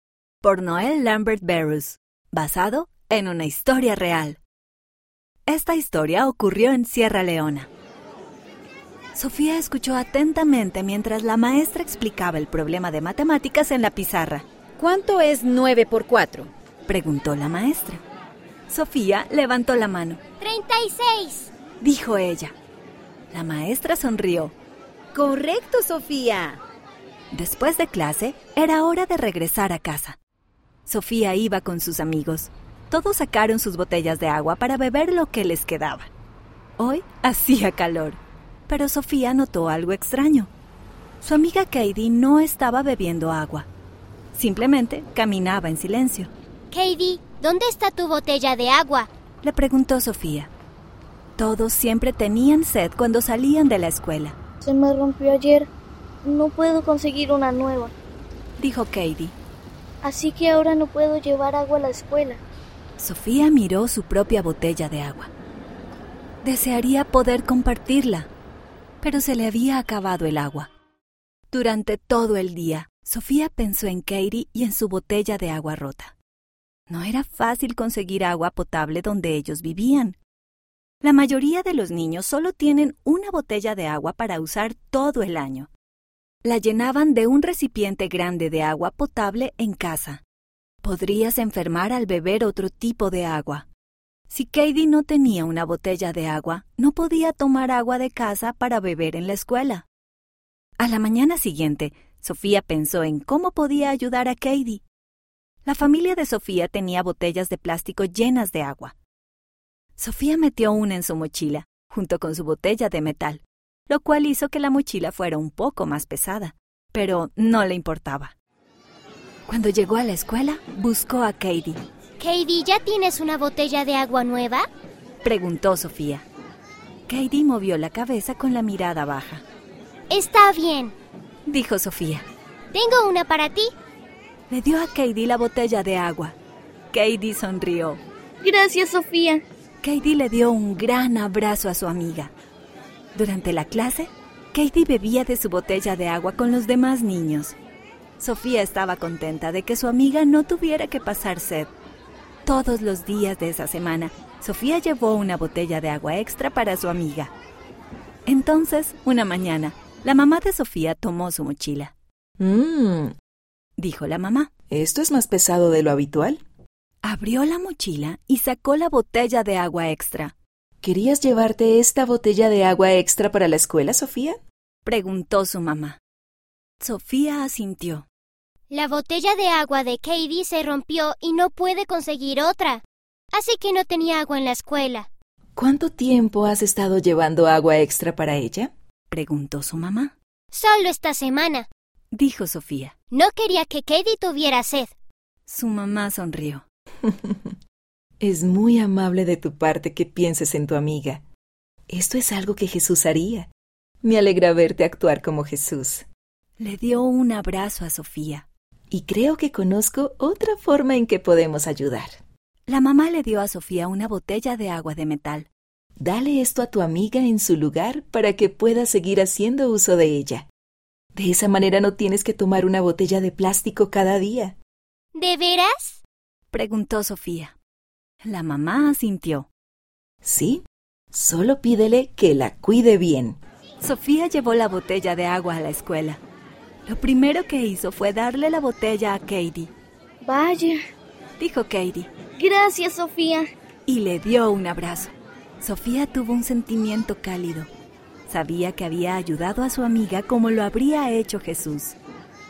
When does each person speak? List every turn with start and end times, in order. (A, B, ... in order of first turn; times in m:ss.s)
0:00.4-0:04.4 A
0:05.5-0:07.7 A
0:09.2-0:14.5 A
0:14.8-0:16.5 B
0:16.9-0:18.0 A
0:18.7-0:20.2 A
0:20.4-0:21.5 C
0:21.8-0:22.6 A
0:23.3-0:24.6 A
0:25.2-0:26.6 B
0:27.3-0:30.2 A
0:30.9-0:36.1 A
0:36.8-0:40.5 A
0:41.2-0:43.7 A
0:44.3-0:46.3 A
0:46.7-0:49.1 C
0:49.4-0:50.5 A
0:51.4-0:54.4 A
0:54.6-0:55.7 D
0:56.2-0:57.9 D
0:58.6-0:59.4 A
1:00.0-1:02.4 D
1:03.0-1:05.3 A
1:06.4-1:08.3 A
1:09.0-1:10.7 A
1:11.5-1:16.2 A
1:16.9-1:20.2 A
1:21.0-1:25.7 A
1:26.4-1:30.2 A
1:30.8-1:33.7 A
1:34.3-1:39.9 A
1:40.8-1:44.8 A
1:45.6-1:49.0 A
1:50.0-1:58.4 A
1:59.5-2:01.8 A
2:02.2-2:04.6 C
2:05.2-2:06.3 A
2:07.1-2:09.4 A
2:10.1-2:11.0 C
2:11.5-2:12.3 A
2:12.7-2:13.7 C
2:14.5-2:16.4 A
2:16.9-2:18.0 A
2:18.4-2:19.4 D
2:19.8-2:22.3 A
2:23.2-2:27.6 A
2:28.2-2:31.7 A
2:32.4-2:37.3 A
2:38.3-2:41.9 A
2:42.4-2:43.1 E
2:43.8-2:44.5 A
2:44.7-2:46.4 E
2:47.0-2:50.4 A
2:50.8-2:54.4 E
2:54.8-2:56.0 A
2:56.8-2:58.1 A
2:58.7-3:05.1 C
3:05.6-3:08.7 E
3:09.1-3:10.2 A
3:10.5-3:11.7 C
3:12.1-3:12.9 A
3:13.1-3:14.9 C
3:15.4-3:16.6 A
3:17.1-3:17.5 E
3:18.2-3:21.2 E
3:21.9-3:23.5 E
3:24.0-3:26.1 E
3:26.6-3:28.5 A
3:28.9-3:32.2 E
3:32.7-3:35.5 A
3:36.0-3:40.5 E
3:41.2-3:44.6 E
3:45.2-3:46.0 C
3:46.5-3:47.6 A
3:48.2-3:49.5 A
3:50.2-3:53.4 E
3:53.8-3:56.2 A
3:56.9-3:59.7 A
4:00.2-4:00.8 D
4:01.4-4:02.1 A
4:02.4-4:03.4 D
4:03.9-4:07.7 A
4:08.3-4:12.0 A